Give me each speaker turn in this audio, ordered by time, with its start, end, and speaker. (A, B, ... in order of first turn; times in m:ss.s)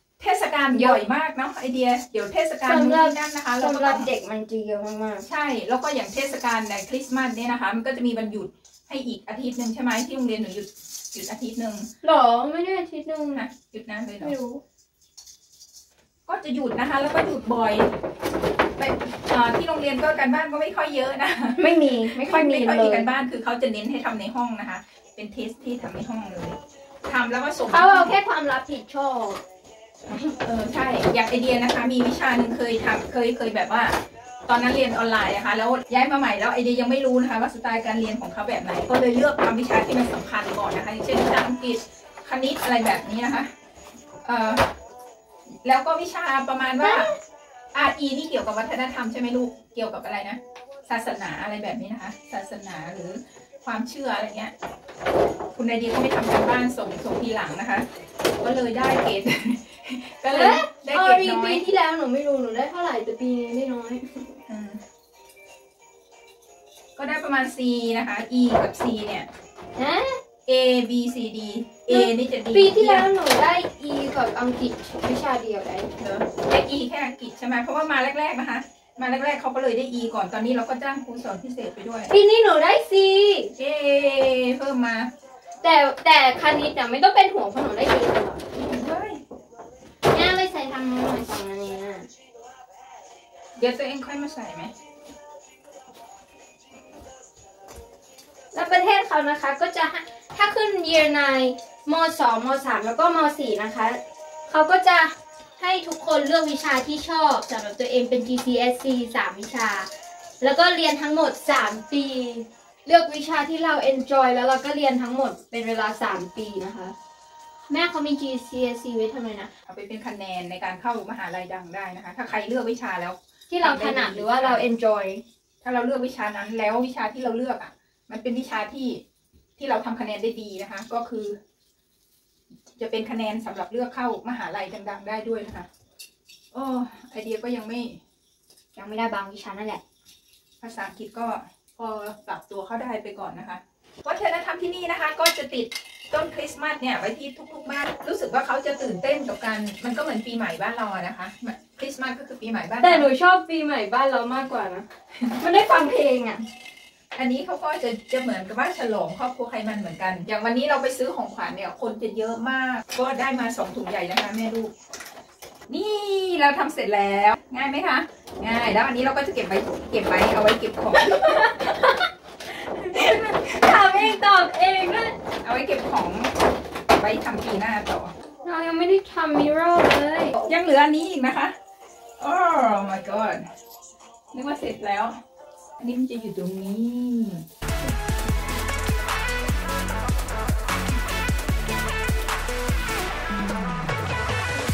0:00.2-0:04.1 A
0:00.7-0:01.0 B
0:02.6-0:05.2 B
0:05.2-0:11.9 A
0:12.0-0:13.4 B
0:13.3-0:14.4 A
0:14.2-0:14.6 B
0:16.3-0:17.9 A
0:18.8-0:28.1 A
0:21.6-0:23.1 B
0:27.7-0:29.4 B
0:30.1-0:30.3 B
0:30.4-0:34.0 A
0:34.5-0:43.5 A
0:44.2-0:44.6 A
0:45.6-0:47.1 A
0:46.8-0:47.1 B
0:47.7-0:54.5 A
0:55.5-0:57.9 A
0:58.4-1:01.7 A
1:00.3-1:04.3 B
1:04.5-1:04.8 A
1:07.0-1:09.3 A
1:09.8-1:10.2 B
1:10.4-1:13.1 A
1:11.9-1:15.9 B
1:16.0-1:22.1 A
1:22.1-1:23.5 B
1:23.6-1:25.1 A
1:25.6-1:28.4 B
1:28.6-1:29.2 A
1:30.1-1:32.1 B
1:33.6-1:34.7 A
1:38.5-1:49.9 B
1:50.4-1:56.9 B
1:57.7-1:59.5 B
1:59.6-2:04.6 A
2:03.5-2:05.2 B
2:05.6-2:09.0 A
2:09.6-2:11.4 A
2:12.7-2:15.7 A
2:16.5-2:18.0 A
2:18.8-2:19.8 B
2:20.6-2:33.1 A
2:32.8-2:34.8 B
2:35.4-2:36.4 B
2:37.2-2:44.7 A
2:45.7-2:51.6 A
2:51.0-2:52.0 B
2:52.8-2:54.1 A
2:52.9-2:55.2 B
2:55.4-2:56.3 A
2:57.0-2:58.1 A
2:58.4-3:00.4 B
3:00.4-3:01.6 A
3:02.2-3:03.4 A
3:04.3-3:05.2 A
3:05.8-3:07.4 A